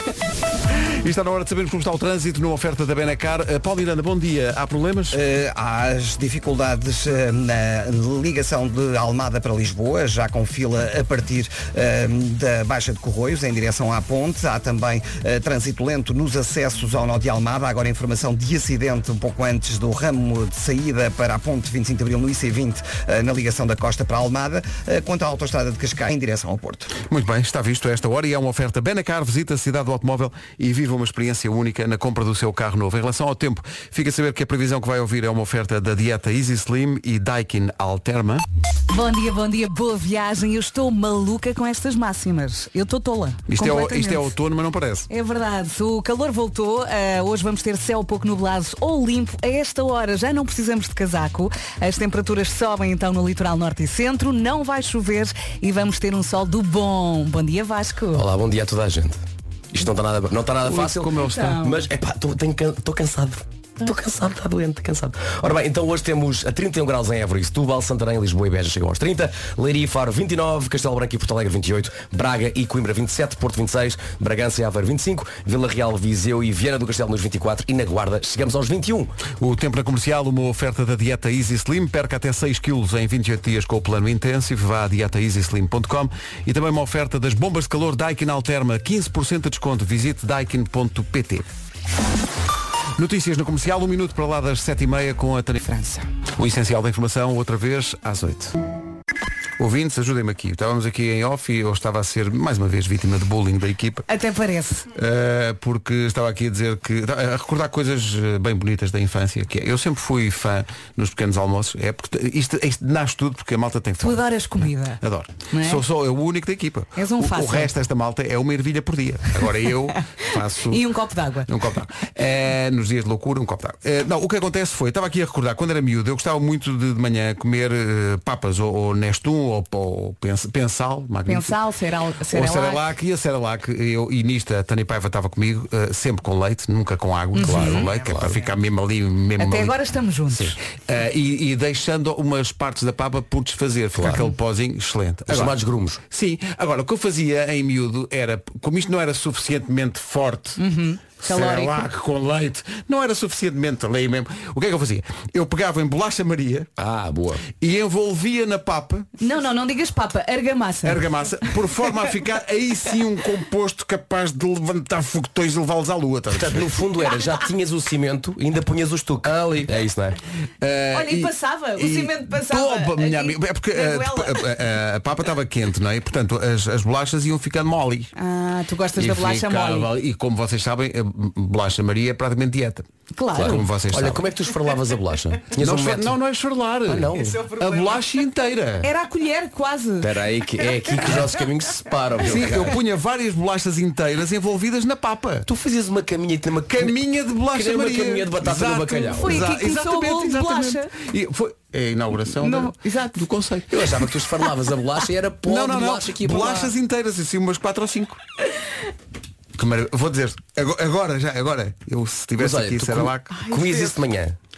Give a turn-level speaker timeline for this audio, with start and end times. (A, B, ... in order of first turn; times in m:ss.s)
0:00.8-0:05.2 A
0:05.1-0:26.9 B
0:27.0-0:38.4 A
0:38.9-0:44.3 C
0:43.5-0:45.1 A
0:45.1-0:58.2 C
0:58.1-0:59.2 D
0:59.7-1:19.1 D
1:00.6-1:01.6 A
1:01.2-1:01.8 C
1:19.4-1:31.4 A
1:33.0-1:35.6 A
1:35.6-1:36.0 C
1:36.4-1:38.6 A
1:39.6-1:44.0 A
1:44.1-1:44.9 C
1:44.9-1:54.2 A
1:54.0-1:55.8 C
1:55.0-2:00.8 A
1:57.0-1:57.7 C
1:59.9-2:01.5 C
2:01.4-2:11.6 A
2:11.2-2:12.8 C
2:12.3-2:19.7 A
2:17.3-2:17.9 C
2:17.4-2:18.3 D
2:19.4-2:20.6 C
2:20.3-2:25.6 A
2:25.3-2:26.0 D
2:26.1-2:30.6 A
2:30.6-2:31.9 C
2:31.2-2:36.7 A
2:36.8-2:37.4 D
2:37.5-2:39.1 A
2:39.2-2:41.0 C
2:40.8-2:46.7 A
2:46.3-2:50.2 D
2:50.6-2:58.1 A
2:50.9-2:54.4 C
2:58.2-2:59.9 C
2:59.0-3:04.3 A
3:03.1-3:03.6 C
3:03.3-3:06.1 D
3:05.5-3:08.9 A
3:06.9-3:07.4 D
3:08.8-3:10.1 C
3:10.0-3:12.8 D
3:12.2-3:15.5 A
3:15.5-3:19.5 D
3:16.7-3:23.8 A
3:19.2-3:20.9 C
3:22.4-3:23.3 C
3:23.7-3:26.7 D
3:25.4-3:28.2 A
3:29.6-3:33.3 A
3:32.4-3:34.4 D
3:33.3-3:33.9 C